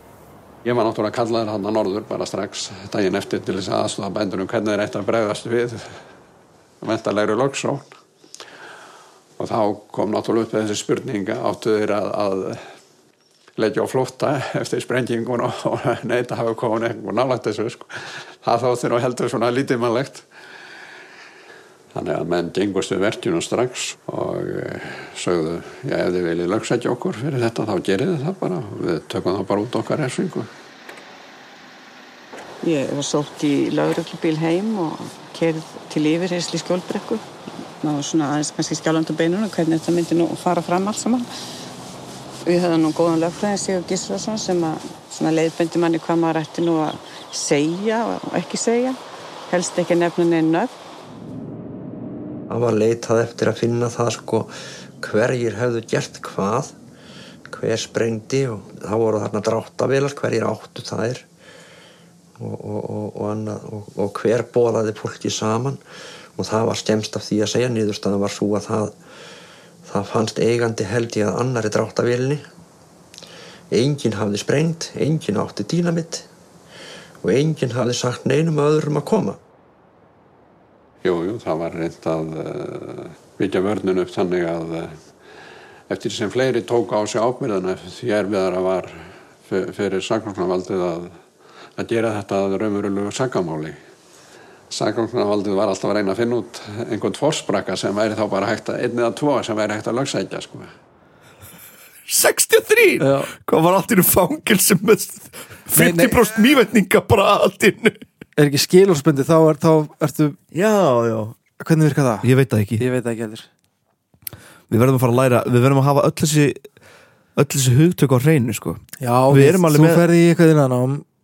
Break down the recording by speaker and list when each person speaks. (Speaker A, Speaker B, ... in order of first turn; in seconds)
Speaker A: 0.6-6.0, 6.8-7.9, 9.4-12.7, 13.6-20.2, 21.9-30.5, 81.0-85.0, 85.9-91.2, 91.8-93.8, 94.7-100.7
Speaker B: 32.6-37.2, 37.8-41.3, 42.5-49.0, 49.5-50.7
Speaker C: 52.5-56.8, 57.5-61.3, 62.4-65.8, 66.4-69.0, 69.8-72.4, 73.7-76.3, 77.2-79.4
Speaker D: 102.1-108.0, 110.5-111.4, 112.2-112.8, 114.7-116.7, 117.4-120.0
Speaker E: 103.0-103.3, 105.7-106.2, 108.4-110.4, 111.6-113.5, 119.0-121.0